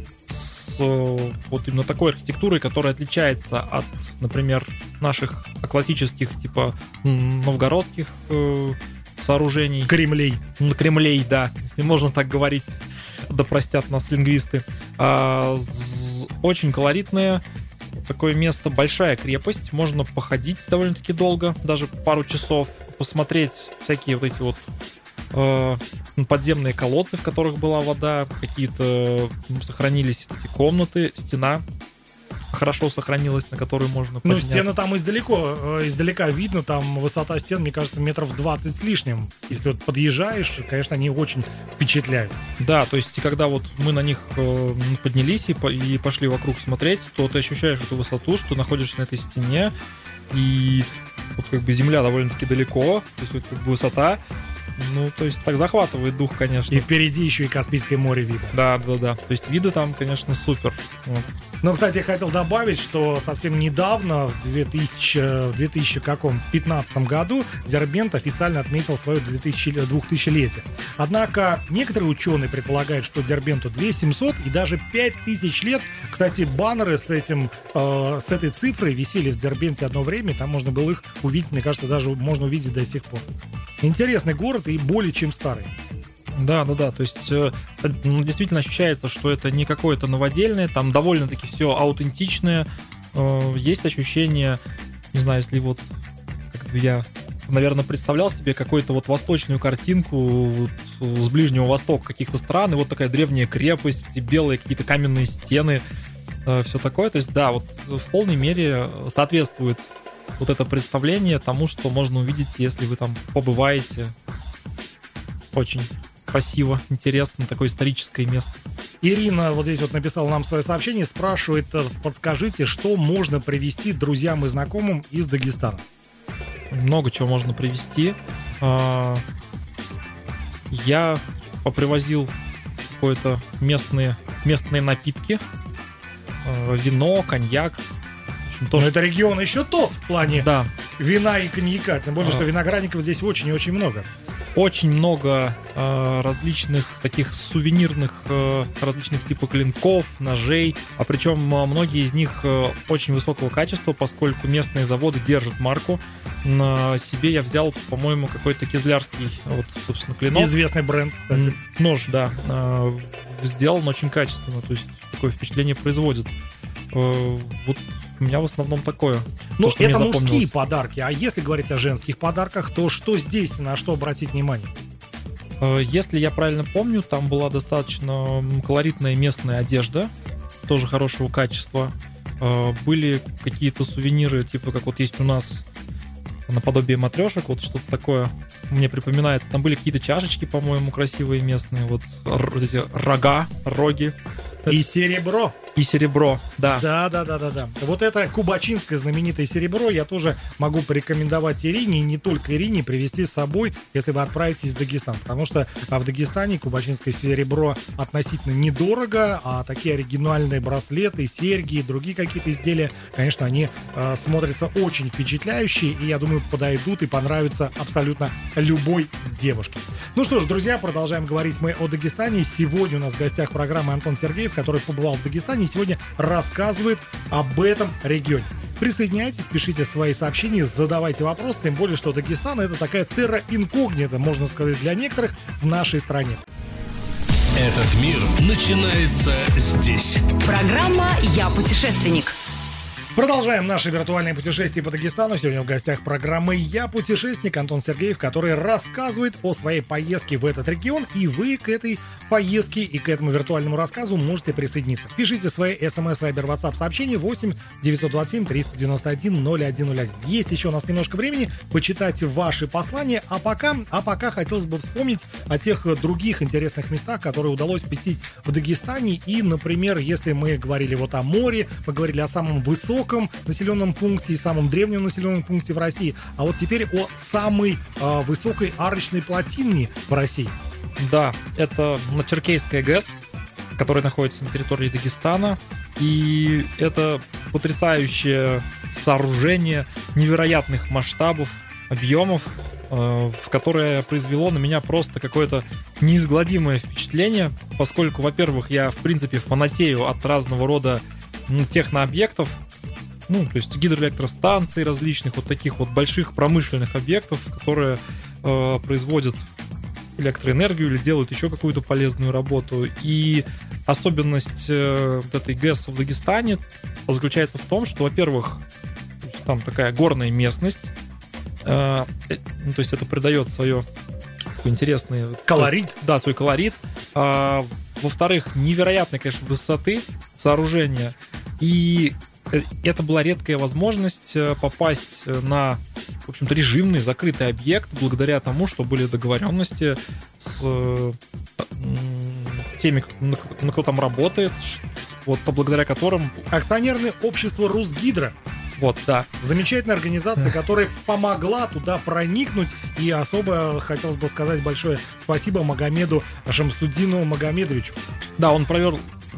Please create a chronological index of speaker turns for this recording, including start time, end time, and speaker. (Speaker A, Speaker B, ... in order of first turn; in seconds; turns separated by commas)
Speaker A: 0.3-9.9, Speaker B: 9.9-10.4, Speaker A: 10.6-17.4, Speaker A: 18.0-24.6, Speaker A: 25.3-31.6, Speaker A: 32.5-34.8, Speaker B: 34.2-42.4, Speaker A: 42.6-49.7, Speaker A: 50.3-54.2, Speaker A: 54.8-56.9, Speaker B: 56.7-58.5, Speaker A: 58.5-61.3, Speaker B: 61.6-83.3, Speaker B: 83.8-85.7, Speaker A: 86.4-94.6, Speaker A: 95.1-95.8, Speaker A: 96.5-105.8, Speaker A: 106.5-109.8, Speaker A: 110.4-114.1, Speaker A: 115.5-118.6, Speaker B: 119.0-125.8, Speaker A: 126.7-129.2, Speaker A: 130.7-132.3, Speaker A: 132.9-135.4, Speaker A: 136.4-137.8, Speaker A: 138.4-138.9, Speaker B: 138.8-144.1, Speaker A: 140.2-140.7, Speaker A: 142.2-142.4, Speaker A: 144.6-160.5, Speaker B: 160.3-161.6, Speaker A: 161.3-166.3, Speaker A: 166.9-170.5, Speaker B: 169.6-174.7, Speaker A: 175.6-180.1, Speaker A: 180.7-185.6, Speaker A: 186.5-194.8, Speaker B: 194.7-195.6, Speaker A: 195.8-196.9, Speaker B: 196.7-236.4, Speaker C: 237.6-240.3, Speaker D: 240.4-242.4, Speaker B: 243.1-280.6, Speaker A: 281.0-283.2, Speaker A: 283.8-302.6, Speaker A: 303.3-309.4, Speaker A: 310.2-318.6, Speaker A: 319.2-320.9, Speaker A: 321.6-323.9, Speaker A: 324.6-346.4, Speaker B: 325.5-325.9, Speaker B: 346.5-348.4, Speaker A: 348.8-349.3, Speaker B: 349.4-358.0, Speaker A: 358.4-359.0